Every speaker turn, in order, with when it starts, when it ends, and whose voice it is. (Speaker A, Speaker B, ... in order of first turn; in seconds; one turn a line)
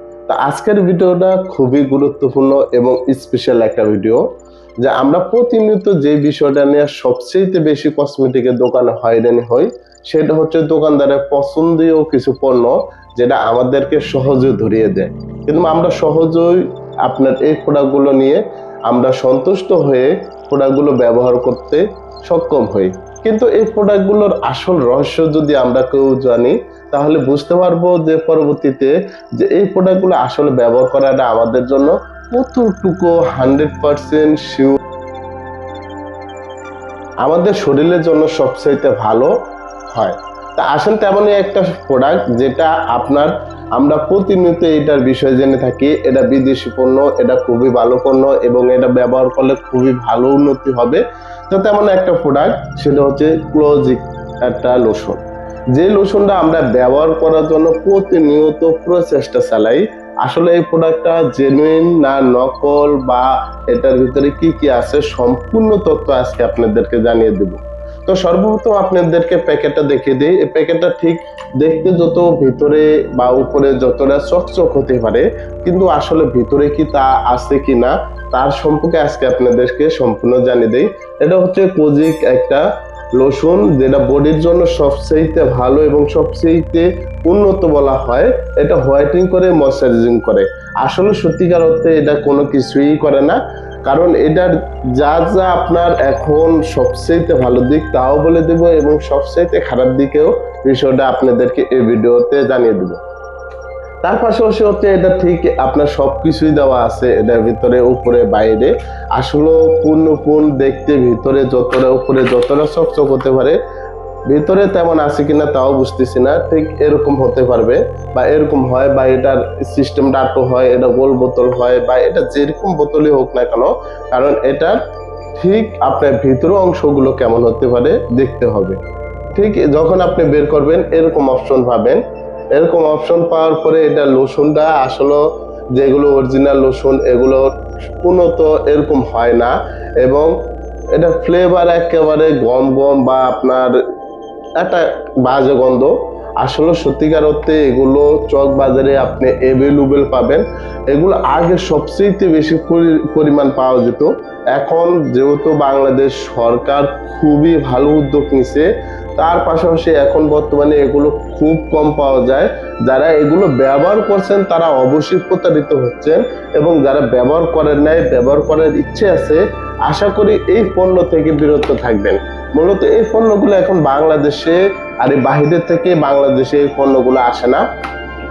Speaker A: 0.3-4.2
Speaker A: 4.8-34.8
Speaker A: 37.2-39.3
Speaker A: 39.9-55.2
Speaker A: 55.7-82.6
Speaker A: 83.2-103.0
Speaker A: 104.0-113.6
Speaker A: 114.3-124.8
Speaker A: 125.3-128.8
Speaker A: 129.3-132.0
Speaker A: 132.6-135.2
Speaker A: 135.7-137.5
Speaker A: 138.0-140.3
Speaker A: 140.9-143.8
Speaker A: 144.6-177.6